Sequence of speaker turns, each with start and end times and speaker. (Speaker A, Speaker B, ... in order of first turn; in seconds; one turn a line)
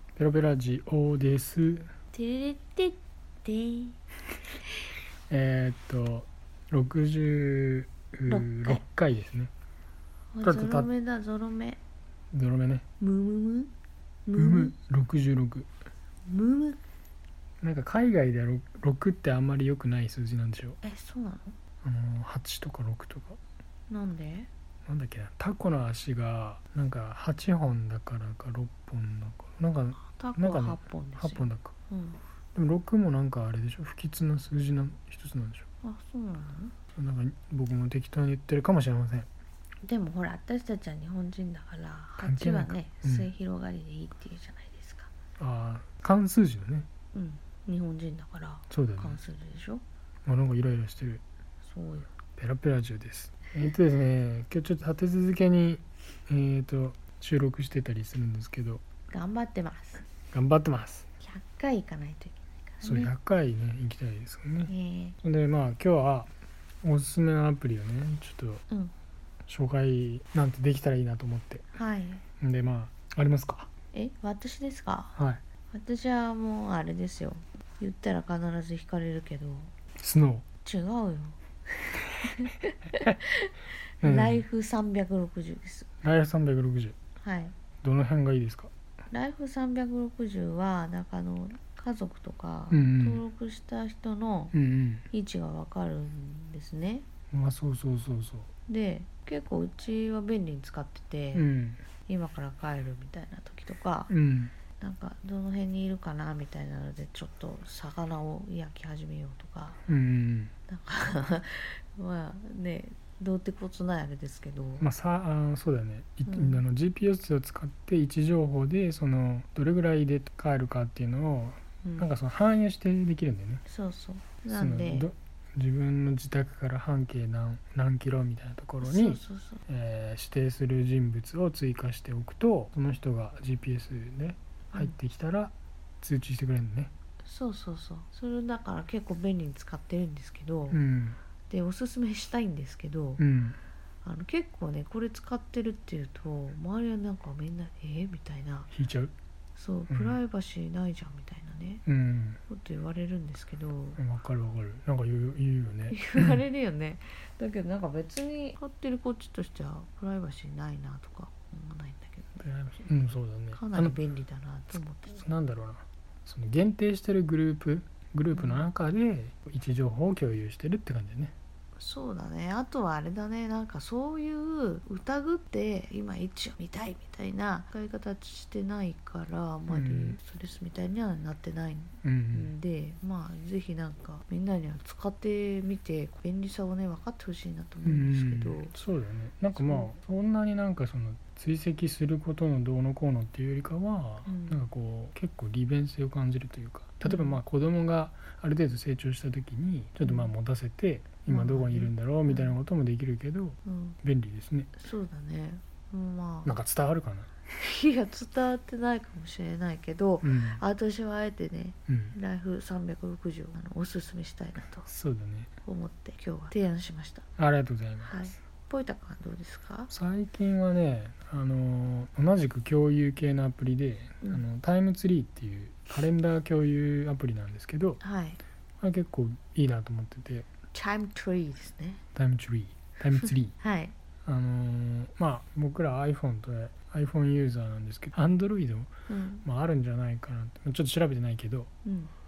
Speaker A: 0.2-1.9
Speaker B: 2.1-4.0
Speaker A: 5.3-9.5
Speaker B: 8.3-8.8
Speaker B: 10.3-11.8
Speaker A: 10.4-10.9
Speaker A: 12.3-12.8
Speaker B: 13.0-13.7
Speaker B: 14.2-14.7
Speaker A: 14.3-15.7
Speaker B: 16.2-16.8
Speaker A: 17.6-20.8
Speaker B: 20.8-21.6
Speaker A: 21.8-23.4
Speaker B: 23.9-24.5
Speaker A: 24.9-31.7
Speaker B: 30.0-32.2
Speaker A: 32.5-35.6
Speaker B: 35.8-36.7
Speaker A: 36.9-39.3
Speaker B: 39.8-45.1
Speaker A: 42.2-43.3
Speaker A: 45.4-46.9
Speaker B: 47.1-49.8
Speaker A: 48.7-49.2
Speaker A: 50.2-51.2
Speaker B: 51.6-52.1
Speaker A: 52.4-58.8
Speaker B: 59.1-60.0
Speaker A: 60.3-61.1
Speaker B: 61.2-63.1
Speaker A: 62.8-66.3
Speaker B: 64.7-65.2
Speaker A: 66.8-68.6
Speaker A: 69.5-71.6
Speaker B: 71.7-72.2
Speaker A: 72.4-73.7
Speaker B: 73.9-75.2
Speaker A: 75.2-75.4
Speaker B: 75.7-79.7
Speaker A: 80.0-80.4
Speaker B: 80.6-81.4
Speaker B: 81.9-85.9
Speaker A: 84.0-84.4
Speaker A: 86.0-86.9
Speaker B: 87.2-87.5
Speaker A: 87.8-88.7
Speaker B: 89.1-94.5
Speaker A: 92.7-93.2
Speaker A: 94.5-95.1
Speaker B: 95.1-97.0
Speaker A: 97.3-98.5
Speaker B: 98.7-101.5
Speaker A: 101.3-101.8
Speaker B: 102.1-104.1
Speaker A: 104.1-104.5
Speaker B: 104.8-109.8
Speaker A: 109.9-110.5
Speaker B: 110.7-114.9
Speaker A: 114.8-123.6
Speaker B: 116.3-116.6
Speaker B: 121.8-122.1
Speaker B: 123.7-125.1
Speaker A: 124.5-136.9
Speaker B: 128.8-129.6
Speaker B: 137.2-140.8
Speaker A: 140.7-141.2
Speaker B: 141.5-143.2
Speaker A: 143.2-143.6
Speaker B: 144.0-148.7
Speaker A: 148.7-149.1
Speaker B: 149.6-151.8
Speaker A: 149.9-150.2
Speaker A: 151.8-152.4
Speaker B: 152.5-154.0
Speaker A: 153.9-156.4
Speaker B: 155.9-162.4
Speaker A: 162.4-164.0
Speaker B: 163.5-165.2
Speaker A: 165.1-171.3
Speaker B: 168.3-168.6
Speaker B: 171.8-188.7
Speaker A: 179.7-180.2
Speaker A: 182.0-182.5
Speaker A: 187.8-204.7
Speaker B: 189.5-189.9
Speaker B: 194.2-194.6
Speaker B: 197.0-197.4
Speaker B: 200.0-200.3
Speaker B: 201.3-202.6
Speaker B: 203.6-204.0
Speaker B: 204.7-206.6
Speaker A: 206.4-207.3
Speaker B: 207.5-214.9
Speaker A: 210.2-210.6
Speaker A: 211.9-212.2
Speaker A: 214.8-215.5
Speaker B: 215.6-217.3
Speaker A: 217.4-218.3
Speaker B: 218.0-219.9
Speaker A: 219.9-228.0
Speaker B: 228.0-228.4
Speaker A: 228.8-230.5
Speaker B: 230.7-232.0
Speaker A: 232.1-233.5
Speaker B: 233.1-233.9
Speaker A: 234.2-238.9
Speaker B: 239.1-239.4
Speaker A: 239.4-241.7
Speaker B: 241.8-242.1